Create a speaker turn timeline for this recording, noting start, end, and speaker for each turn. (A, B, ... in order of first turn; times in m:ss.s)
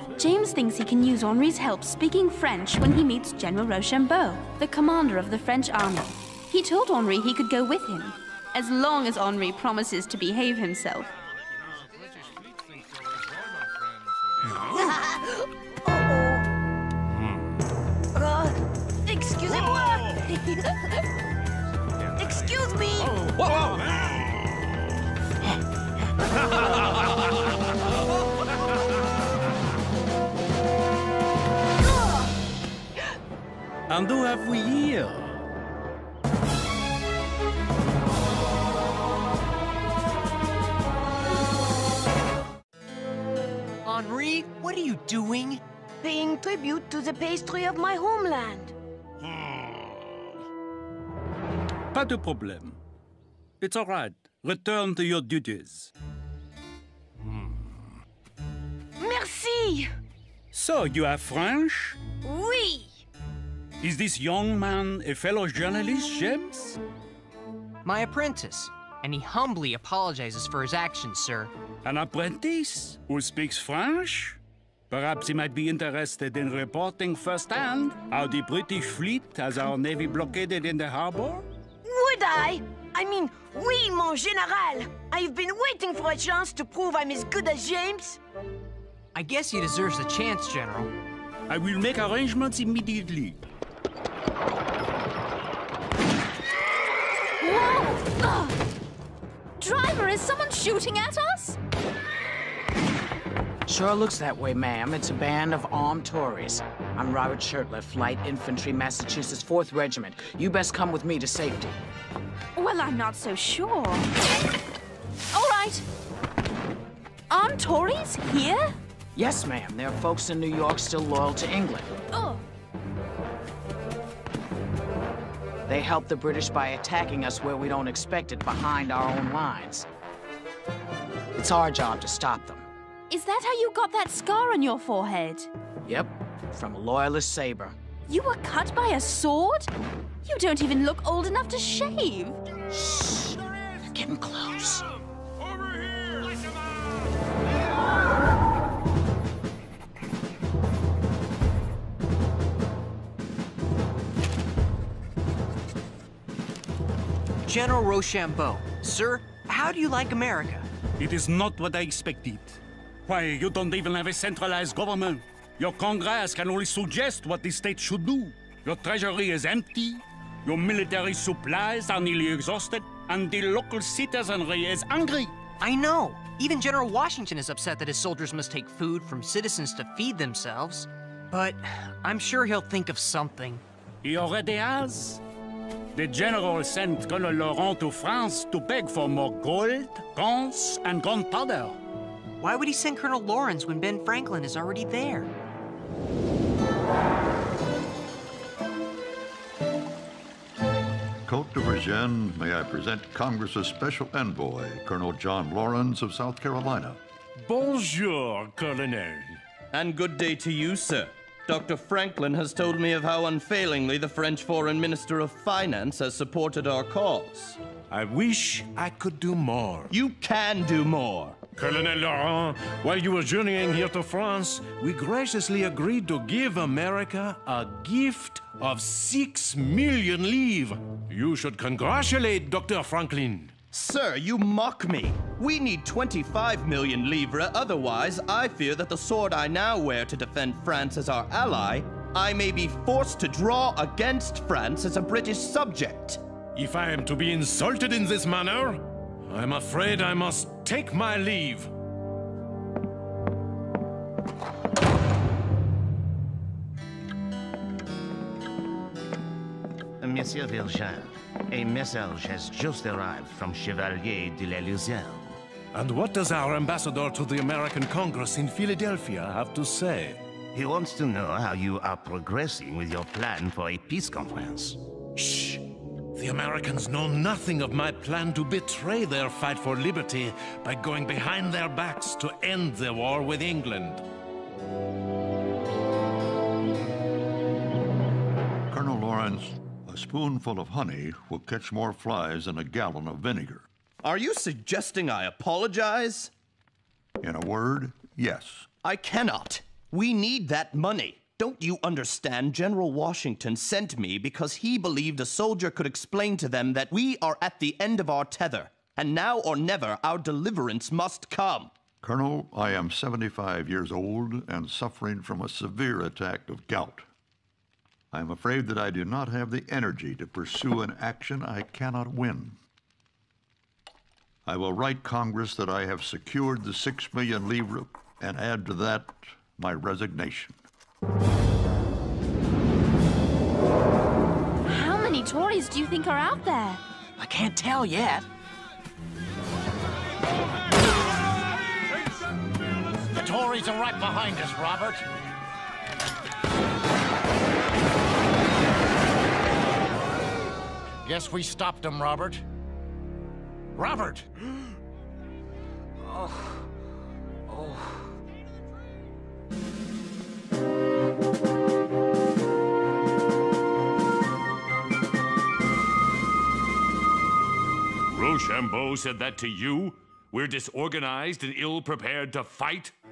0:00.2-0:11.1 A
0:14.8-0:15.3 B
0:15.8-0:16.4 B
0:18.2-0:20.6 B
0:22.2-0:23.3 B
0:31.8-0:32.3 B
0:33.9-0:35.4 C
0:43.8-0:45.6 D
0:46.0-0:48.8 B
0:51.9-0:52.8 C
0:53.6-0:55.9 C
0:59.0-0:59.9 B
1:00.5-1:02.0 C
1:02.2-1:03.0 B
1:03.8-1:06.8 C
1:07.8-1:11.5 D
1:11.8-1:14.4 C
1:14.9-1:21.5 C
1:21.8-1:28.2 B
1:29.1-1:30.9 D
1:31.5-1:33.4 C
1:37.4-1:38.6 A
1:39.6-1:41.6 A
1:43.7-1:51.8 E
1:52.6-1:54.1 A
1:55.3-1:55.8 A
1:57.3-1:58.7 A
1:59.1-2:01.9 E
2:02.1-2:02.4 A
2:05.7-2:09.9 E
2:11.3-2:12.7 E
2:13.1-2:15.5 A
2:15.8-2:17.8 E
2:18.1-2:19.7 A
2:20.2-2:22.4 A
2:22.7-2:23.4 E
2:23.9-2:24.9 E
2:37.4-2:40.7 D
2:41.0-2:55.3 C
2:55.6-3:03.6 D
3:04.0-3:05.2 C
3:05.9-3:11.8 C
3:12.4-3:15.3 D
3:21.2-3:27.0 F
3:27.4-3:29.4 G
3:29.7-3:37.6 H
3:37.9-3:39.9 G
3:39.9-3:41.4 H
3:41.6-3:53.6 G
3:53.7-4:06.2 H
4:06.6-4:11.7 G
4:20.0-4:25.4 I
4:25.7-4:30.2 G
4:30.5-4:34.8 I
4:35.2-4:44.0 G
4:48.7-4:53.7 F
4:54.0-4:56.3 H
4:57.2-4:58.7 F
4:58.8-5:11.7 H
5:12.0-5:17.1 F
5:18.1-5:22.6 F
5:24.4-5:30.6 F
5:34.7-5:36.8 A
5:37.2-5:38.3 E
5:43.1-5:45.0 J
5:51.0-5:52.4 J
5:53.8-5:54.3 J
5:56.1-5:56.4 J
5:57.5-5:57.8 J
6:08.1-6:12.9 K